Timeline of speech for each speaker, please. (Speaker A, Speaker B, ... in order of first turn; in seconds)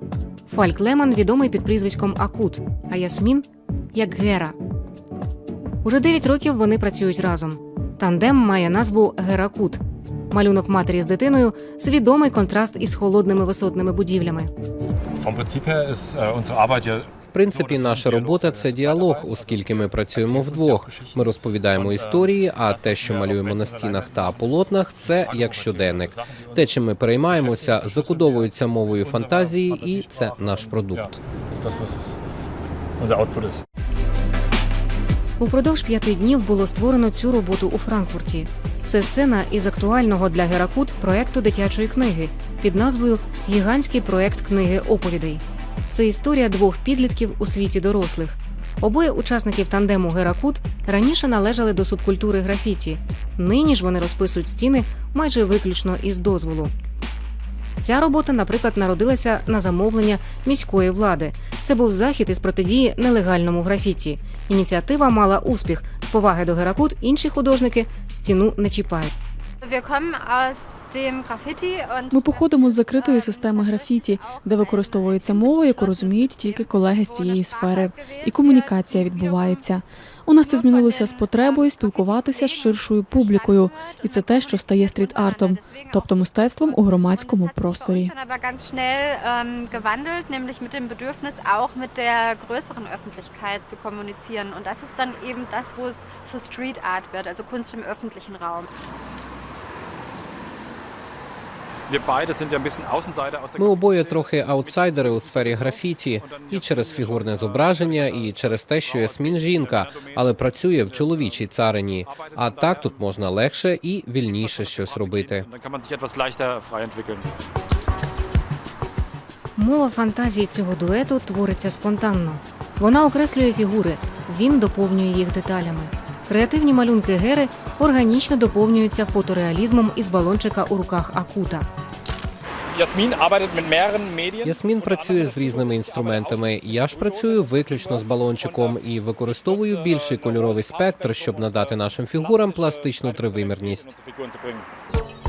Speaker A: 0.5-4.5, 5.8-14.5, 35.4-56.7, 57.8-69.1, 119.5-131.7
Speaker B: 15.2-32.2, 33.0-33.6, 101.9-113.1, 114.2-117.3, 132.7-144.7
Speaker C: 17.3-31.1, 103.6-115.4, 134.4-143.9
Speaker D: 69.6-79.7, 80.4-98.7
Speaker E: 72.1-88.1